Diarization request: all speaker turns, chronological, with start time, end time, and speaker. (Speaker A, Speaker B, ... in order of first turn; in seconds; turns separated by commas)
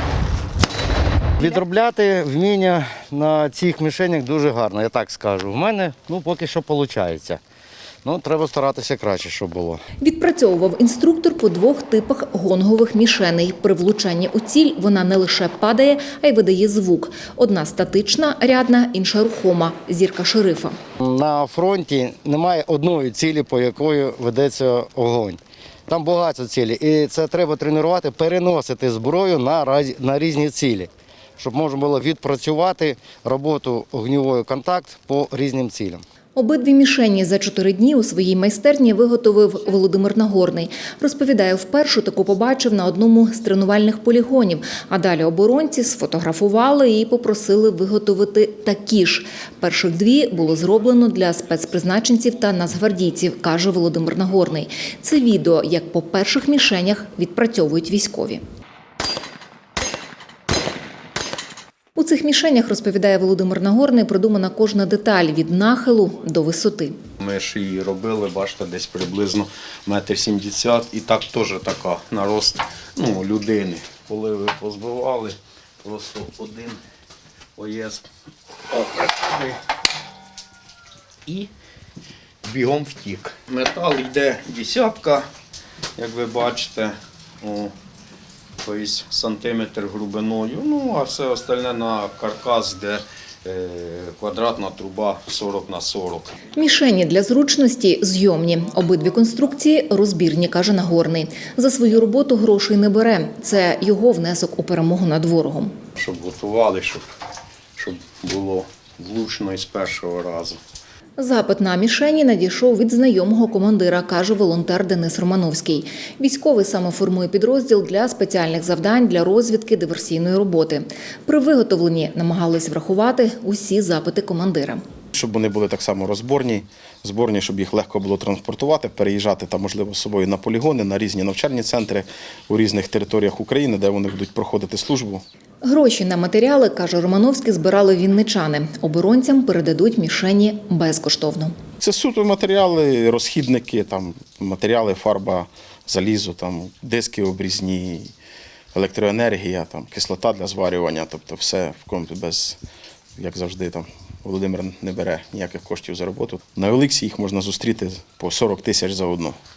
Speaker A: 1.4-7.4, Speaker A: 8.0-9.8, Speaker B: 10.0-20.8, Speaker A: 21.0-36.0, Speaker B: 36.3-58.4, Speaker B: 62.0-67.0, Speaker C: 67.2-76.8, Speaker C: 77.6-78.1, Speaker C: 78.7-79.6, Speaker C: 82.4-85.3, Speaker C: 86.0-87.7, Speaker C: 88.6-96.3, Speaker B: 96.5-105.8, Speaker C: 106.0-107.0, Speaker C: 107.8-110.6, Speaker B: 111.2-124.8, Speaker D: 125.1-135.2, Speaker B: 135.6-141.5, Speaker D: 141.8-148.1, Speaker D: 148.7-152.6, Speaker D: 153.2-159.3